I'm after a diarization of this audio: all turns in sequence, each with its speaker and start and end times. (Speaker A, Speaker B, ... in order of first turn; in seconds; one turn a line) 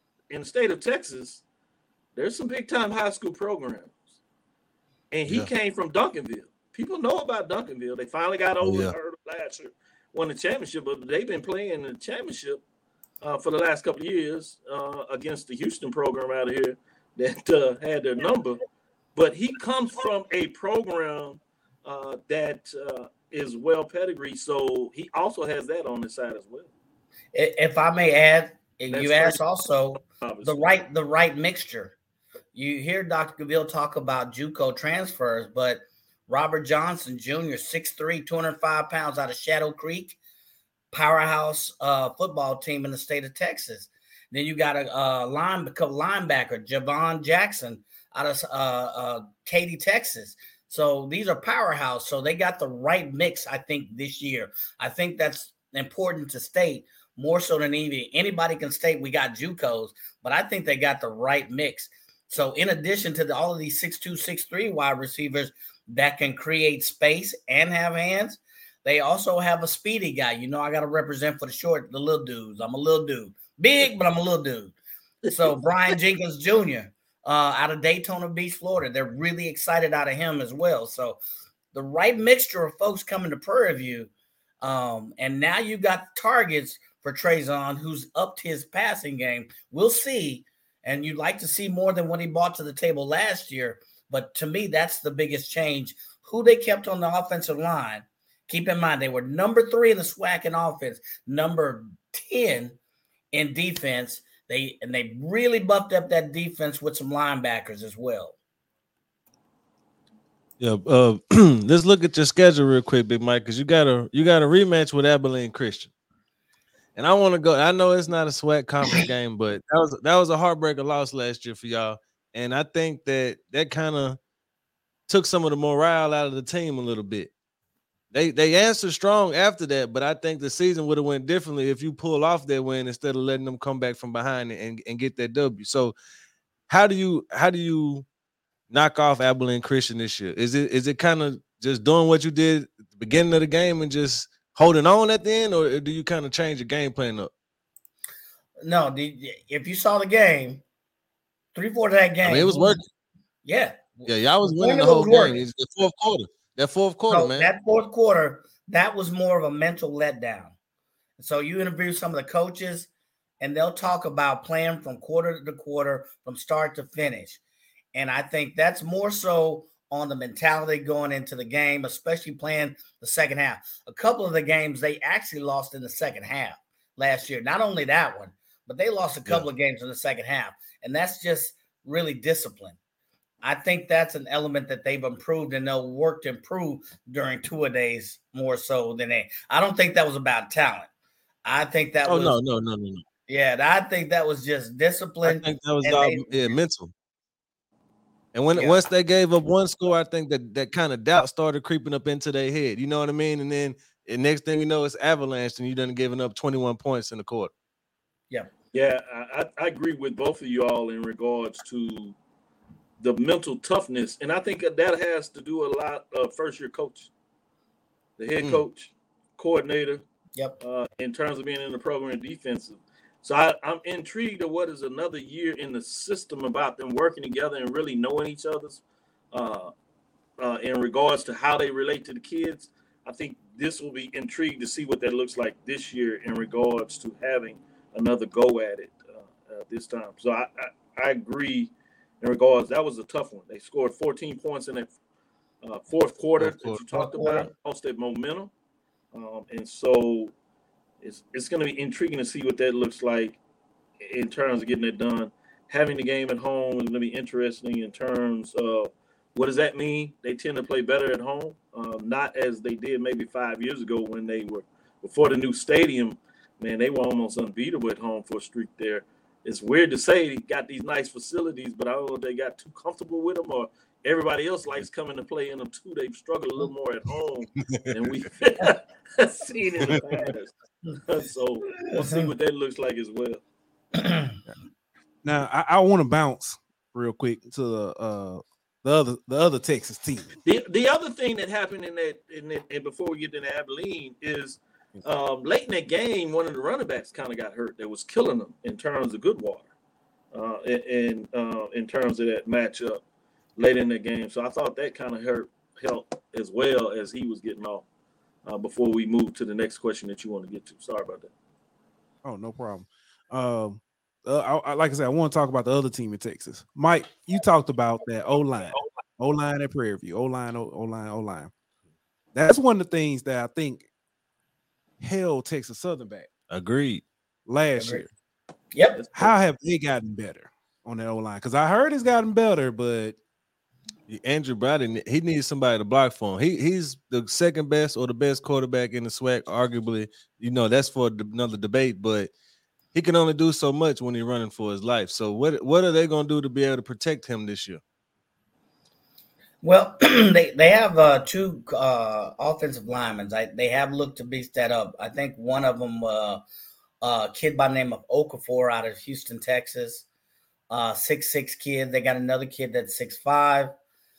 Speaker A: 0.3-1.4
Speaker A: 2.1-4.0
Speaker A: 5.1-12.6
Speaker B: 8.6-8.9
Speaker A: 13.2-18.6
Speaker A: 19.1-26.7
Speaker C: 27.3-32.0
Speaker A: 28.9-29.4
Speaker A: 30.0-30.7
Speaker C: 32.5-40.2
Speaker C: 40.9-74.8
Speaker C: 75.3-81.2
Speaker C: 81.7-84.1
Speaker C: 84.6-102.8
Speaker C: 103.3-108.4
Speaker B: 110.6-115.9
Speaker B: 117.0-124.2
Speaker B: 125.1-127.3
Speaker B: 128.1-135.9
Speaker B: 136.7-138.1
Speaker B: 138.7-147.3
Speaker C: 148.6-150.6
Speaker C: 151.5-152.8
Speaker B: 152.2-152.9
Speaker C: 153.4-155.4
Speaker B: 154.1-157.5
Speaker C: 157.1-160.5
Speaker C: 161.2-162.9
Speaker C: 163.4-167.4
Speaker C: 167.9-182.8
Speaker C: 183.4-190.9
Speaker C: 191.4-192.4
Speaker B: 192.1-193.0
Speaker C: 193.3-196.6
Speaker B: 195.2-196.9
Speaker B: 198.3-207.5
Speaker C: 198.5-198.8
Speaker A: 208.7-212.2
Speaker A: 213.0-217.1
Speaker A: 218.2-220.0
Speaker A: 220.6-228.8
Speaker A: 229.3-229.7
Speaker A: 230.4-244.9
Speaker A: 245.6-248.5
Speaker B: 246.4-246.8
Speaker C: 246.9-247.5
Speaker A: 249.1-250.3
Speaker A: 251.0-253.4
Speaker A: 254.0-283.4
Speaker C: 281.8-282.3
Speaker C: 284.0-284.3
Speaker D: 285.2-290.4
Speaker A: 290.4-299.7
Speaker A: 300.3-303.0
Speaker A: 303.6-307.9
Speaker A: 308.4-311.3
Speaker D: 312.2-321.5
Speaker D: 322.3-323.9
Speaker D: 325.0-326.3
Speaker B: 326.5-327.0
Speaker D: 327.5-328.1
Speaker C: 327.8-328.1
Speaker C: 328.7-329.0
Speaker A: 329.0-329.3
Speaker D: 329.1-333.2
Speaker B: 334.1-342.3
Speaker B: 342.9-347.8
Speaker C: 349.6-356.4
Speaker C: 357.0-360.1
Speaker C: 360.7-363.7